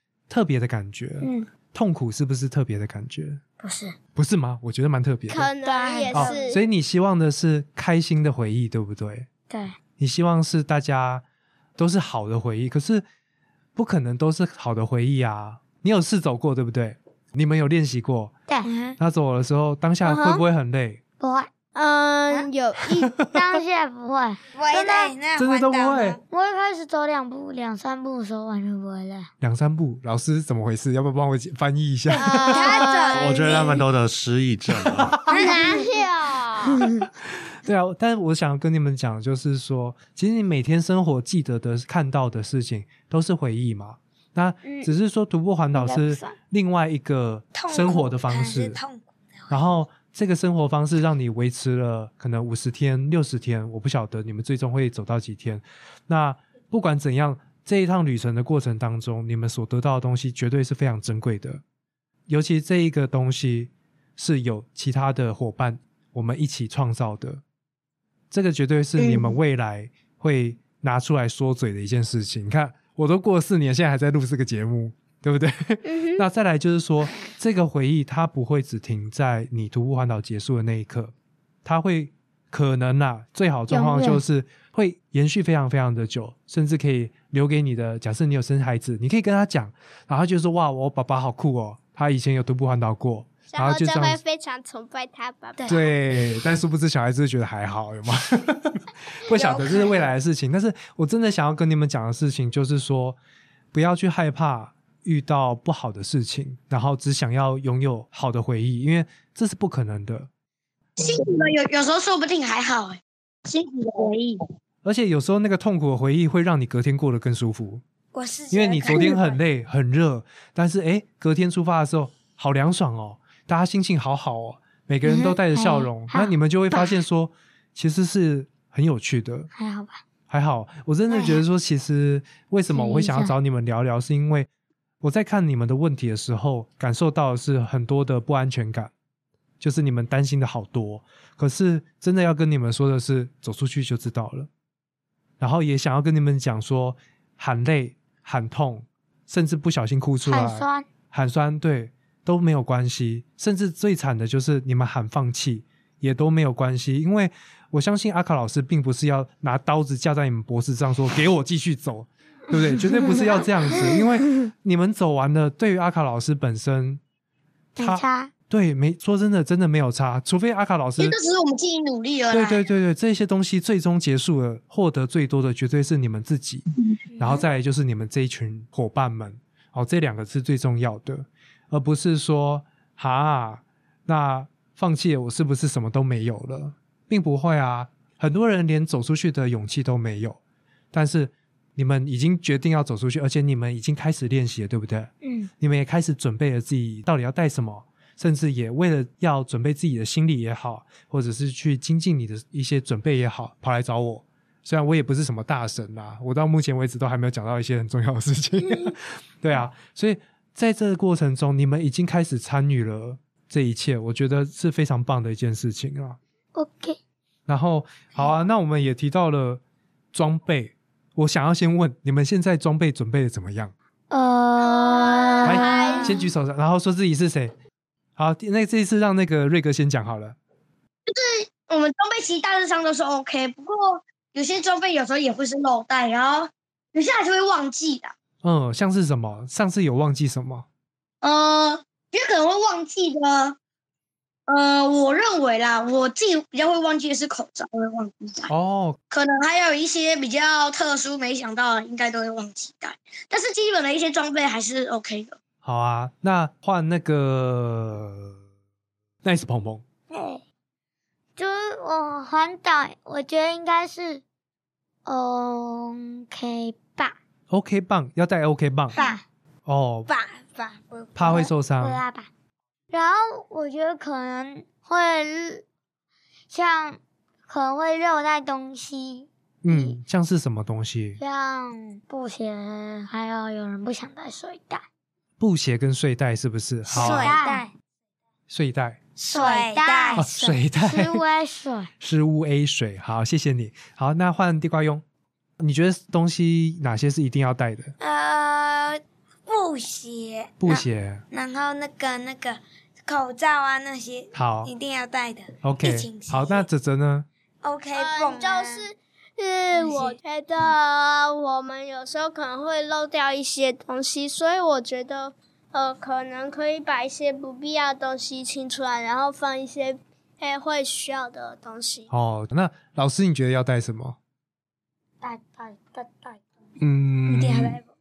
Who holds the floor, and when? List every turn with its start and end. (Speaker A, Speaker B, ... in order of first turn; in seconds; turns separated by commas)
Speaker A: 0.3-3.4, Speaker B: 1.2-1.5, Speaker B: 3.6-4.0, Speaker A: 4.2-5.5, Speaker C: 5.3-6.6, Speaker D: 5.7-6.6, Speaker A: 6.1-9.3, Speaker B: 9.5-9.8, Speaker A: 10.0-11.2, Speaker A: 11.8-13.1, Speaker A: 13.8-18.3, Speaker D: 18.6-19.0, Speaker A: 19.0-21.0, Speaker C: 20.0-20.4, Speaker B: 21.2-21.5, Speaker C: 21.8-23.3, Speaker B: 23.2-25.1, Speaker D: 24.6-26.2, Speaker A: 25.4-26.2, Speaker B: 26.3-29.3, Speaker A: 29.4-32.9, Speaker D: 32.2-33.7, Speaker C: 32.2-33.7, Speaker E: 33.1-35.2, Speaker A: 34.8-35.4, Speaker D: 35.3-35.9, Speaker C: 35.4-36.8, Speaker B: 35.4-35.9, Speaker B: 36.8-37.0, Speaker A: 37.6-48.8, Speaker B: 45.8-46.3, Speaker D: 47.5-49.7, Speaker A: 49.5-61.6, Speaker A: 62.3-67.4, Speaker A: 68.3-81.1, Speaker F: 69.0-69.3, Speaker C: 75.8-76.2, Speaker A: 81.6-94.2, Speaker B: 83.7-84.2, Speaker C: 93.5-95.9, Speaker A: 95.7-103.2, Speaker D: 99.3-99.9, Speaker A: 103.7-110.3, Speaker F: 111.0-114.4, Speaker A: 114.8-117.8, Speaker D: 118.1-119.4, Speaker A: 118.5-129.5, Speaker B: 125.0-127.0, Speaker B: 129.5-130.0, Speaker A: 130.3-134.5, Speaker B: 131.1-131.4, Speaker B: 132.7-133.3, Speaker A: 135.0-138.9, Speaker A: 139.6-144.5, Speaker A: 145.4-167.0, Speaker B: 150.3-150.9, Speaker B: 162.9-163.2, Speaker B: 163.8-164.5, Speaker B: 167.8-168.3, Speaker A: 167.8-171.2, Speaker F: 171.0-172.6, Speaker A: 172.3-176.7, Speaker A: 177.2-190.4, Speaker A: 190.9-216.2, Speaker B: 195.2-195.5, Speaker B: 216.6-217.0, Speaker A: 217.5-219.6, Speaker A: 220.1-223.7, Speaker B: 224.1-226.3, Speaker C: 224.6-226.2, Speaker A: 225.4-227.5, Speaker A: 228.2-230.4, Speaker F: 231.1-238.1, Speaker A: 238.4-240.7, Speaker F: 241.2-243.6, Speaker F: 244.5-248.5, Speaker A: 248.5-249.0, Speaker F: 249.1-255.4, Speaker A: 255.6-258.3, Speaker A: 259.2-259.8, Speaker B: 260.1-260.4, Speaker B: 261.4-264.2, Speaker B: 265.1-267.2, Speaker A: 267.5-269.0, Speaker B: 268.9-269.2, Speaker A: 269.7-270.1, Speaker D: 270.1-271.5, Speaker A: 271.1-272.0, Speaker B: 271.3-272.3, Speaker B: 272.9-275.6, Speaker B: 276.5-280.0, Speaker A: 279.6-281.2, Speaker B: 281.2-284.8, Speaker A: 285.4-287.4, Speaker D: 286.9-287.7, Speaker B: 286.9-287.6, Speaker A: 288.5-289.0, Speaker D: 289.2-290.4, Speaker B: 289.3-291.9, Speaker A: 290.1-291.2, Speaker A: 292.0-295.0, Speaker A: 295.6-297.9, Speaker D: 298.0-306.7, Speaker A: 300.6-301.2, Speaker A: 304.3-304.7, Speaker A: 305.6-307.3, Speaker D: 307.6-308.9, Speaker C: 307.9-322.1, Speaker D: 309.7-310.2, Speaker A: 322.1-324.2, Speaker B: 325.2-326.4, Speaker E: 326.8-327.8, Speaker D: 327.3-327.9